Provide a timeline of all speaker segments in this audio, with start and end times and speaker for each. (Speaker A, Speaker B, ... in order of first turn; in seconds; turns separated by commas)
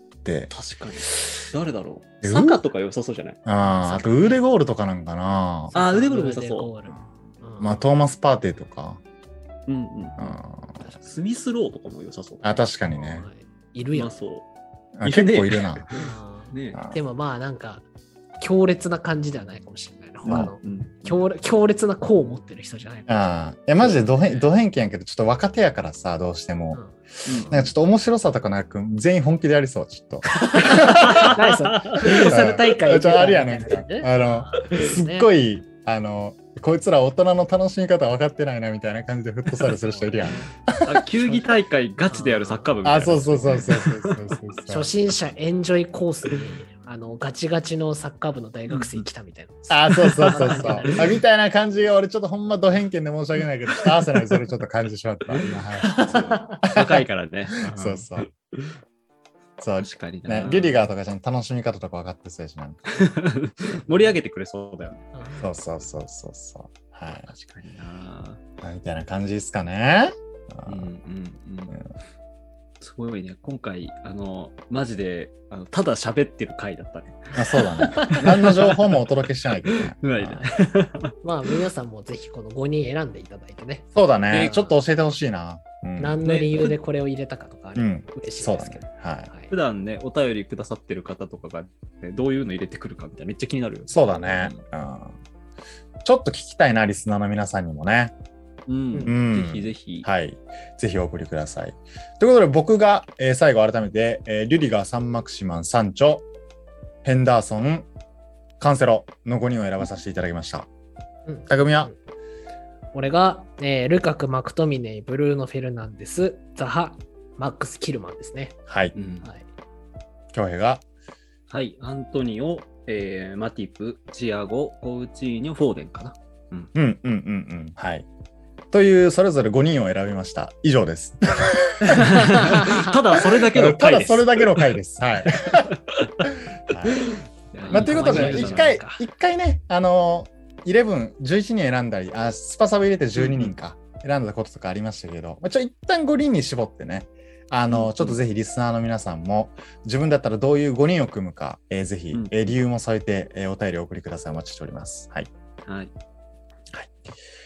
Speaker A: 0.2-0.5, Speaker B: 0.5-3.4, Speaker A: 2.2-2.6, Speaker A: 3.5-5.7, Speaker C: 3.6-4.4, Speaker C: 5.7-7.8, Speaker B: 5.8-6.7, Speaker A: 7.6-9.0, Speaker B: 9.7-10.4, Speaker A: 10.2-10.8, Speaker B: 10.9-12.6, Speaker A: 12.4-13.3, Speaker C: 12.9-14.1, Speaker B: 13.9-14.5, Speaker A: 15.0-15.9, Speaker B: 15.0-16.8, Speaker C: 15.9-17.9, Speaker A: 16.7-17.0, Speaker C: 18.4-23.1, Speaker A: 20.3-20.5, Speaker B: 20.3-21.2, Speaker A: 23.1-31.4, Speaker B: 23.8-24.5, Speaker C: 26.7-27.7, Speaker B: 27.3-27.6, Speaker C: 30.3-35.3, Speaker B: 30.7-32.5, Speaker A: 32.0-41.0, Speaker C: 39.8-40.5, Speaker B: 40.8-44.3, Speaker C: 41.2-41.5, Speaker C: 42.1-42.7, Speaker A: 42.8-44.9, Speaker C: 44.7-51.0, Speaker B: 48.7-49.0, Speaker A: 49.7-58.3, Speaker B: 49.9-51.1, Speaker C: 55.8-56.6, Speaker B: 56.7-58.8, Speaker A: 59.6-62.8, Speaker B: 59.8-60.9, Speaker C: 60.4-60.7, Speaker B: 62.9-65.0, Speaker C: 65.1-65.5, Speaker A: 65.4-67.3, Speaker B: 67.3-68.4, Speaker A: 68.6-70.9, Speaker B: 70.7-71.8, Speaker B: 72.8-79.0, Speaker A: 77.3-80.4, Speaker C: 77.8-78.4, Speaker B: 79.7-81.6, Speaker C: 81.2-83.9, Speaker A: 83.9-86.2, Speaker B: 84.3-84.7, Speaker C: 86.0-89.5, Speaker B: 86.2-86.7, Speaker A: 87.8-89.3, Speaker B: 89.5-94.6, Speaker A: 93.9-95.2, Speaker A: 96.0-98.1, Speaker B: 98.7-100.1, Speaker A: 99.0-106.2, Speaker A: 107.0-107.9, Speaker A: 108.6-110.7, Speaker C: 111.3-112.0, Speaker A: 111.5-111.9, Speaker C: 112.9-118.5, Speaker A: 118.7-118.9, Speaker B: 119.0-119.3, Speaker A: 120.3-120.8, Speaker B: 121.5-126.7, Speaker A: 126.8-128.1, Speaker A: 128.7-135.7, Speaker B: 131.8-134.7, Speaker C: 132.5-132.9, Speaker B: 135.7-136.3, Speaker A: 136.2-137.0, Speaker B: 136.8-138.8, Speaker A: 137.7-155.3, Speaker C: 137.7-139.1, Speaker B: 143.2-143.5, Speaker B: 147.7-148.2, Speaker B: 155.7-155.9